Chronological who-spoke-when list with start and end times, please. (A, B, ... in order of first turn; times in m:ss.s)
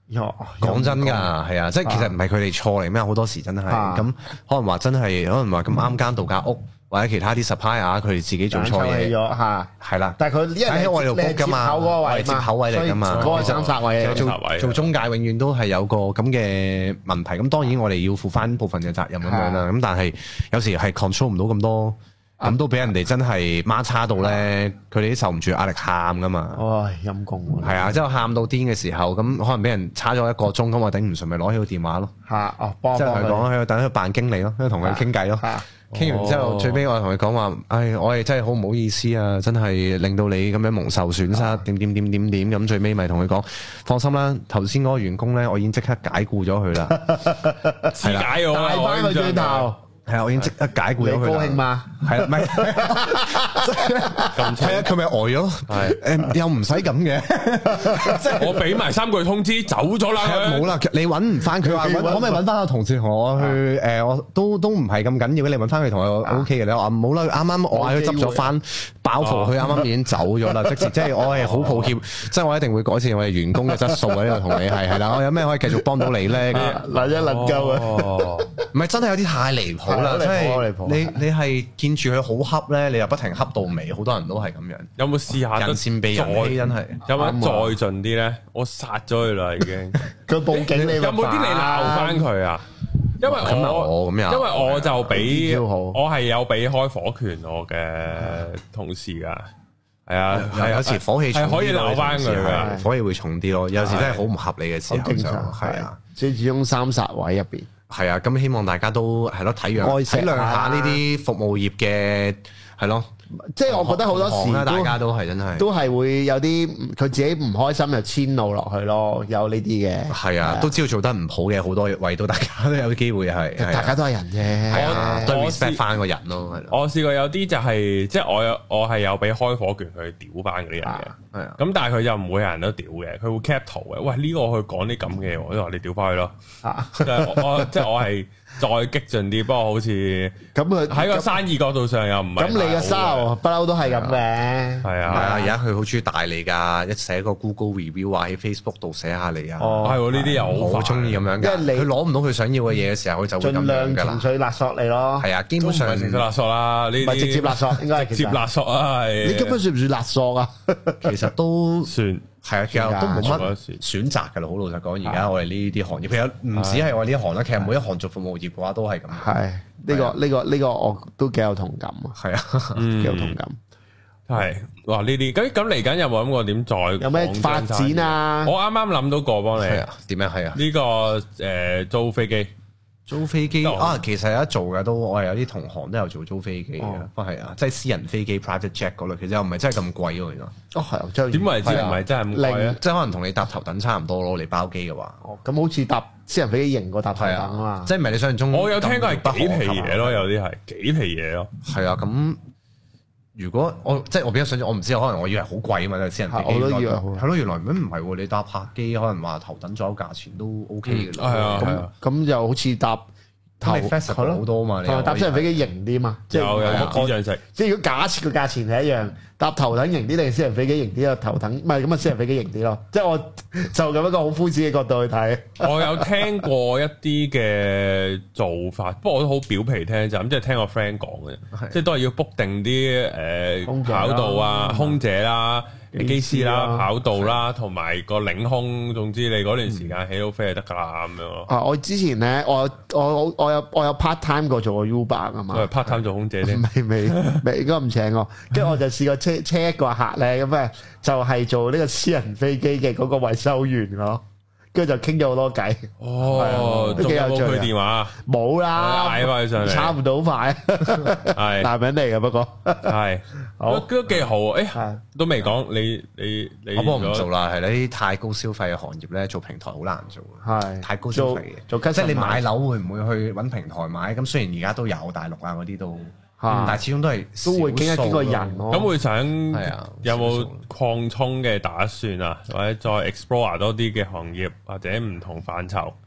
0:00.1-0:01.3 A
0:00.6-0:09.2 B
0:01.8-0:02.1 A
0:03.7-0:04.1 A
0:08.5-0:14.3 A
0:09.8-0:26.6 B
0:13.1-0:14.9 C
0:19.2-0:19.7 A
0:26.6-0:28.0 A
0:27.6-0:32.1 B
0:32.3-0:33.5 A
0:33.0-0:47.2 B
0:34.8-0:35.6 A
0:35.9-0:36.8 C
0:41.3-0:41.6 A
0:46.9-0:49.8 A
0:47.9-0:49.7 C
0:48.0-0:48.3 B
0:50.1-0:58.7 B
0:51.0-0:54.5 A
0:54.3-0:54.9 C
0:55.7-0:56.0 C
0:57.7-0:58.4 A
0:58.3-1:00.7 C
1:00.2-1:16.8 B
1:01.5-1:02.4 A
1:07.7-1:08.5 A
1:09.2-1:09.6 C
1:10.5-1:10.9 A
1:11.5-1:11.9 C
1:13.7-1:18.7 A
1:16.5-1:18.5 C
1:18.7-1:24.9 B
1:19.9-1:21.2 A
1:25.0-1:32.7 C
1:25.5-1:27.0 B
1:27.1-1:27.8 A
1:30.1-1:32.3 A
1:33.2-1:39.5 C
1:33.2-1:35.3 B
1:35.1-1:36.0 A
1:38.2-1:38.4 A
1:40.1-1:42.7 C
1:40.3-1:46.0 B
1:42.5-1:42.9 A
1:43.8-1:44.2 C
1:43.9-1:44.2 A
1:44.9-1:47.7 A
1:47.9-1:53.1 B
1:49.8-1:51.0 A
1:53.5-1:55.0 A
1:53.7-1:55.7 B
1:55.6-2:00.7 A
2:00.1-2:04.0 B
2:03.6-2:05.3 A
2:04.7-2:06.8 B
2:04.7-2:05.8 C
2:06.7-2:16.3 C
2:10.8-2:11.1 A
2:11.3-2:11.6 B
2:16.6-2:17.7 A
2:17.0-2:20.4 C
2:20.6-2:21.4 A
2:20.9-2:23.3 C
2:22.4-2:25.6 A
2:23.8-2:24.2 B
2:24.8-2:25.3 C
2:25.1-2:34.3 B
2:29.6-2:30.6 A
2:29.8-2:31.2 C
2:31.4-2:31.9 A
2:33.4-2:35.3 A
2:35.2-2:36.3 B
2:35.6-2:39.6 C
2:37.0-2:38.4 A
2:39.2-2:41.2 A
2:41.0-2:41.9 B
2:41.8-2:42.3 C
2:42.4-2:49.3 B
2:42.7-2:43.5 A
2:43.1-2:43.8 C
2:46.6-2:46.9 C
2:49.2-2:52.2 A
2:49.9-2:50.2 B
2:52.2-2:52.8 B
2:52.8-2:53.4 C
2:53.0-2:53.6 A
2:54.3-2:59.8 C
2:57.0-2:58.5 A
2:59.6-3:00.6 B
3:00.6-3:02.5 C
3:03.1-3:10.5 B
3:03.6-3:04.0 C
3:06.8-3:07.1 A
3:10.7-3:12.8 A
3:11.3-3:12.8 C
3:11.6-3:12.0 B
3:12.8-3:15.2 B
3:15.2-3:17.9 A
3:17.2-3:20.3 B
3:18.5-3:21.5 C
3:21.6-3:22.4 B
3:23.4-3:31.8 B
3:26.3-3:27.2 A
3:30.9-3:31.9 C
3:31.6-3:33.1 A
3:33.6-3:46.4 A
3:33.6-3:35.5 B
3:36.3-3:37.4 C
3:36.6-3:37.0 B
3:45.6-4:01.5 C
3:51.5-3:51.8 B
3:53.7-3:55.0 A
3:55.9-3:56.9 A
4:01.5-4:05.7 A
4:05.5-4:07.4 C
4:06.4-4:14.2 A
4:14.7-4:23.0 A
4:16.0-4:18.2 C
4:18.7-4:20.0 C
4:21.3-4:21.7 C
4:22.8-4:27.3 C
4:23.6-4:23.9 A
4:24.7-4:25.0 A
4:26.7-4:38.7 B
4:30.4-4:32.4 A
4:36.4-4:36.8 A
4:36.5-4:36.8 C
4:37.4-4:38.9 A
4:38.7-4:46.0 C
4:39.5-4:40.7 B